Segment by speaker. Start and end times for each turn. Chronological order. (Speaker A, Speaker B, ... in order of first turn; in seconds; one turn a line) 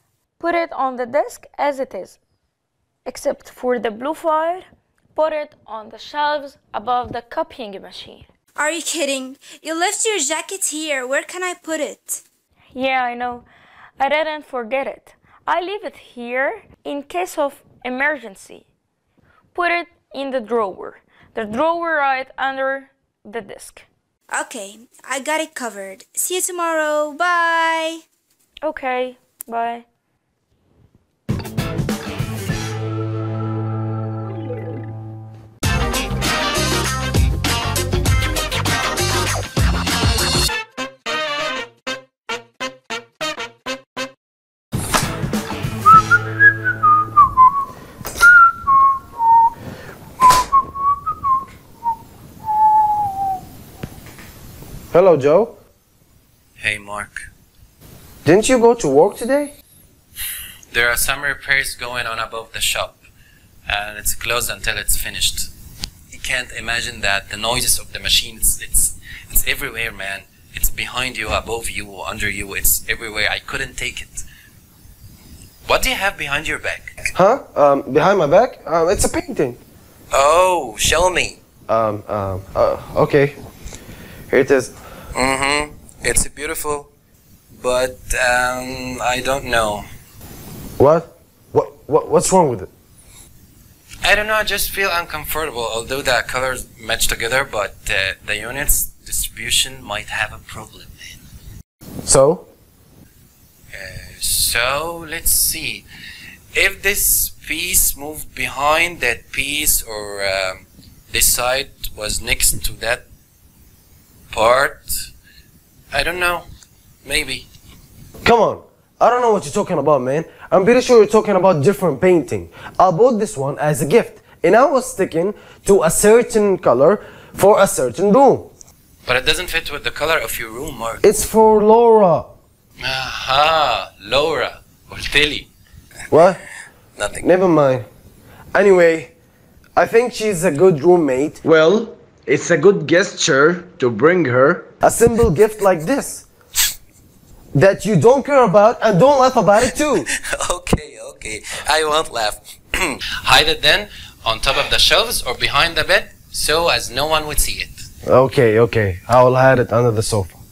Speaker A: 0.4-2.2
Speaker A: 3.0-8.2
Speaker B: 8.6-12.2
Speaker A: 12.7-13.4
Speaker A: 14.0-18.6
Speaker A: 19.5-23.9
Speaker B: 24.3-28.0
Speaker A: 28.6-29.8
Speaker C: 54.9-55.6
Speaker D: 56.6-57.2
Speaker C: 58.2-59.5
Speaker D: 60.7-63.0
Speaker D: 63.7-65.5
Speaker D: 66.1-74.2
Speaker D: 75.7-76.9
Speaker C: 77.1-79.6
Speaker D: 80.1-81.4
Speaker C: 81.7-83.4
Speaker C: 84.3-84.7
Speaker D: 85.1-86.9
Speaker D: 87.5-89.9
Speaker C: 90.8-92.7
Speaker D: 94.0-101.2
Speaker C: 102.0-102.5
Speaker D: 103.7-105.8
Speaker D: 106.5-113.0
Speaker D: 114.3-115.1
Speaker D: 115.9-116.5
Speaker D: 117.0-117.5
Speaker C: 118.2-128.5
Speaker D: 129.0-131.0
Speaker C: 131.0-132.3
Speaker D: 132.8-135.5
Speaker C: 136.1-136.4
Speaker D: 136.9-137.3
Speaker C: 137.2-137.8
Speaker C: 138.5-139.1
Speaker C: 139.8-141.4
Speaker E: 141.4-144.7
Speaker C: 144.8-146.2
Speaker C: 147.5-150.1
Speaker D: 150.1-157.8
Speaker C: 158.1-160.4